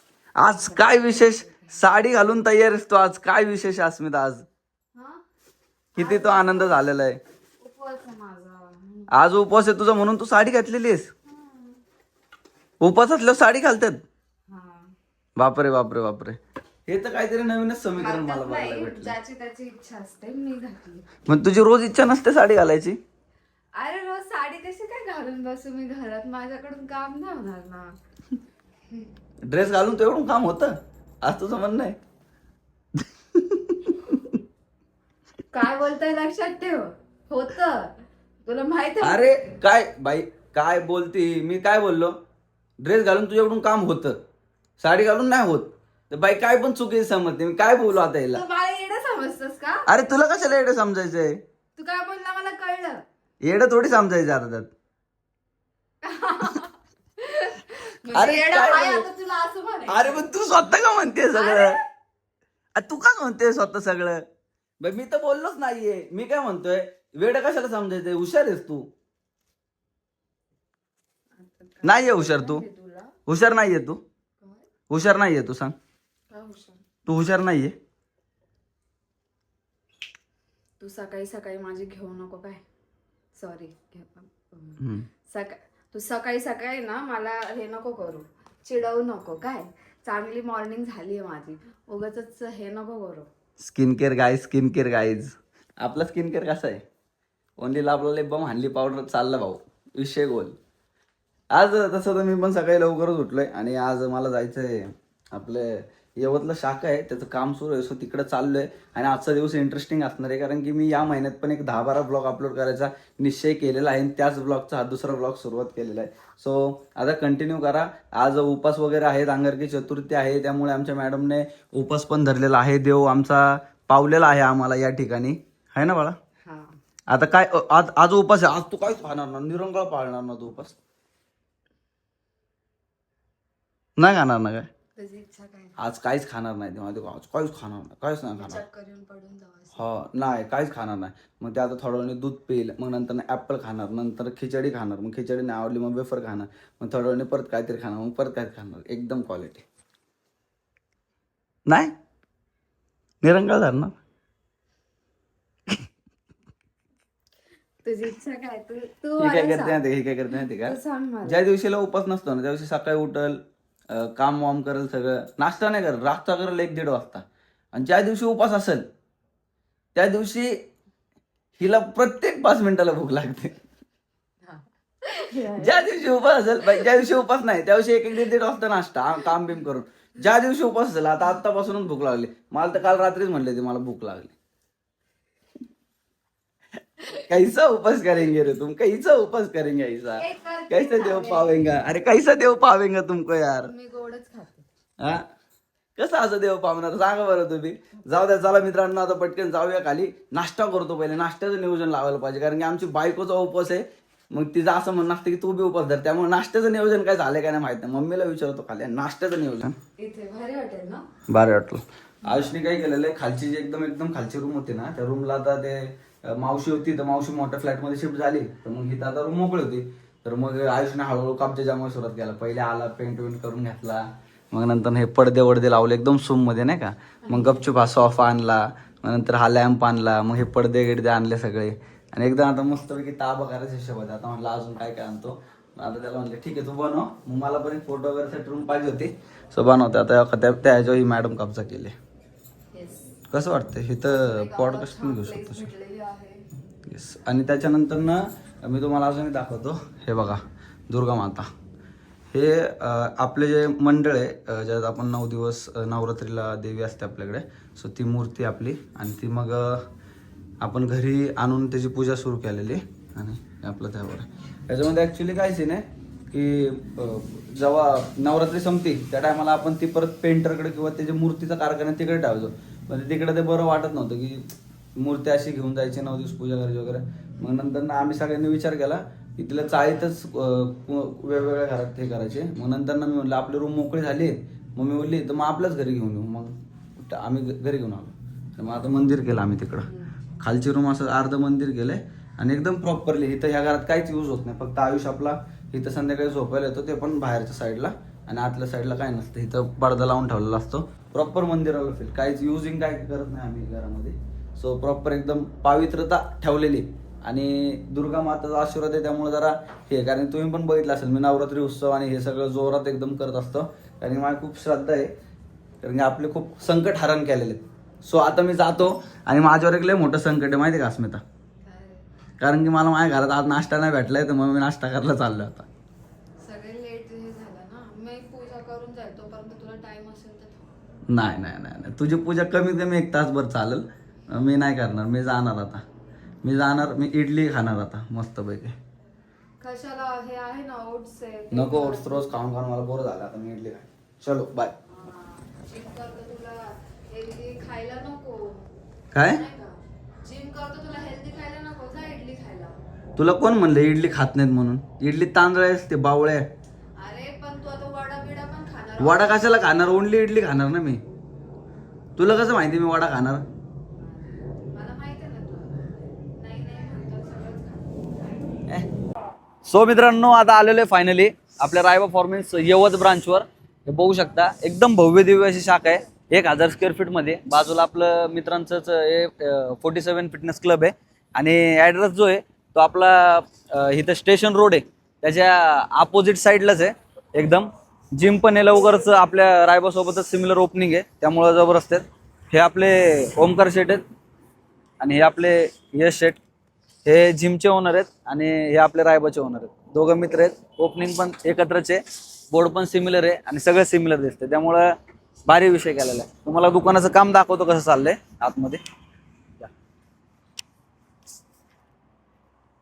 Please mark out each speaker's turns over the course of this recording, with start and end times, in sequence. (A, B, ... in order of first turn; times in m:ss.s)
0:00.4-0:04.4 A
0:00.6-0:01.7 B
0:04.9-0:05.2 B
0:05.9-0:06.8 B
0:06.0-0:07.2 A
0:07.6-0:09.1 B
0:09.1-0:11.1 A
0:11.3-0:11.8 B
0:12.8-0:14.0 A
0:14.5-0:14.9 B
0:15.4-0:19.1 A
0:18.0-0:21.1 B
0:21.2-0:23.0 A
0:23.8-0:28.0 B
0:29.5-0:32.0 A
0:33.3-0:34.2 A
0:35.5-0:37.9 B
0:38.4-0:39.4 B
0:39.0-0:42.2 A
0:42.8-0:44.2 A
0:44.8-0:48.4 A
0:48.3-0:49.8 B
0:49.9-0:51.4 A
0:51.8-0:53.0 B
0:53.4-0:54.7 A
0:56.0-1:00.2 B
0:58.1-0:59.0 A
0:59.9-1:01.8 A
1:01.3-1:01.8 B
1:02.7-1:04.2 A
1:04.8-1:08.9 A
1:11.4-1:13.1 B
1:11.8-1:12.6 A
1:13.2-1:14.0 A
1:14.9-1:15.7 A
1:16.3-1:16.8 B
1:17.0-1:17.8 A
1:20.8-1:22.6 B
1:23.4-1:33.3 B
1:24.8-1:25.1 A
1:33.6-1:36.8 A
1:37.6-1:40.6 A
1:41.5-2:06.2 A
2:06.4-2:06.8 B
2:07.1-2:10.7 A
2:14.0-2:14.7 A
2:15.0-2:15.8 B
2:15.8-2:18.6 A
2:18.4-2:19.8 B
2:19.7-2:29.6 A
2:31.7-2:31.9 A
2:33.2-2:34.0 A
2:37.8-2:39.8 B
2:39.2-2:43.4 A
2:40.6-2:41.4 B
2:43.9-2:48.8 A
2:49.9-2:50.6 A
2:51.6-2:53.6 A
2:54.4-2:55.8 B
2:55.5-3:04.3 A
3:07.3-3:13.7 A
3:10.2-3:11.7 B
3:13.6-3:14.6 B
3:16.0-3:29.7 A
3:30.0-3:31.1 B
3:31.3-4:02.0 A
3:32.2-3:32.5 B
3:47.3-3:47.6 B
4:02.7-4:03.1 B
4:03.3-4:05.7 A
4:04.0-4:06.4 B
4:06.8-4:11.5 A
4:12.3-4:19.8 A
4:20.6-4:49.9 A
4:49.8-4:50.1 B
4:50.4-5:15.1 A
5:15.8-5:21.2 A
5:21.6-5:22.0 B
5:22.4-5:25.7 A
5:26.4-5:30.7 B
5:31.1-5:35.8 A
5:36.4-5:38.8 A
5:39.6-5:42.4 B
5:41.5-5:44.7 A
5:44.9-5:48.6 B
5:49.1-5:49.4 A
5:49.2-5:52.8 B
5:53.2-5:56.4 A
5:57.0-5:59.7 B
5:59.0-6:01.0 A
6:02.2-6:03.4 A
6:03.9-6:08.0 B
6:09.6-6:34.0 A
6:35.0-6:36.4 A
6:37.0-6:44.9 A
6:45.4-6:48.8 A